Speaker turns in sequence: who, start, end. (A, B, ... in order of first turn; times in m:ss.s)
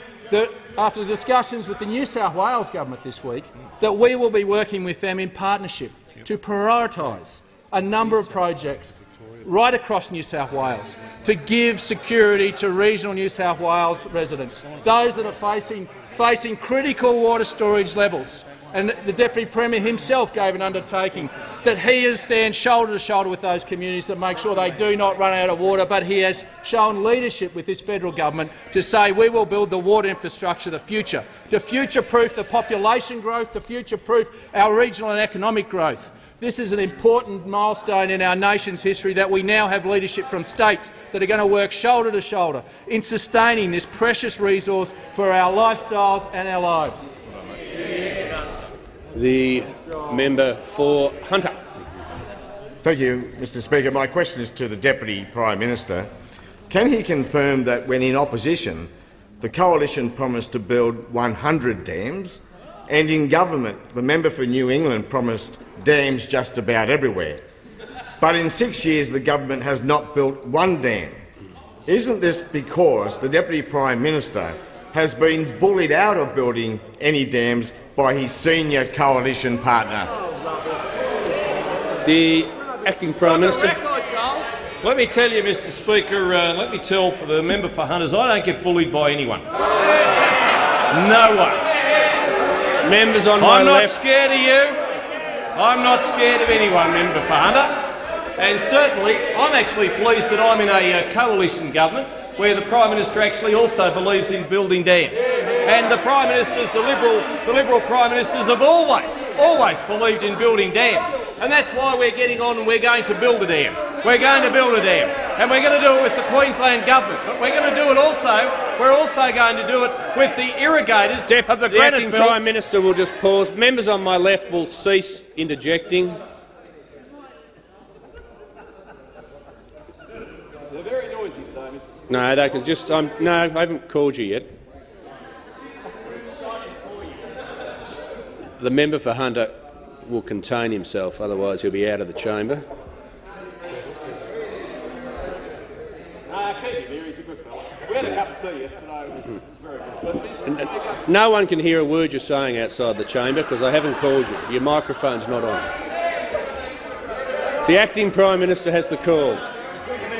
0:00.3-0:47.1 A
0:49.1-0:51.6 B
0:52.8-0:56.1 C
0:56.7-1:07.4 C
1:08.2-1:11.2 C
1:11.9-1:20.1 C
1:22.0-1:23.8 B
1:24.8-1:29.5 D
1:30.9-1:31.6 D
1:32.8-1:34.0 B
1:33.4-1:34.8 D
1:35.6-2:02.4 D
2:01.3-2:06.2 B
2:12.1-2:14.5 B
2:18.6-2:22.6 B
2:30.4-2:35.7 B
2:37.6-2:39.4 B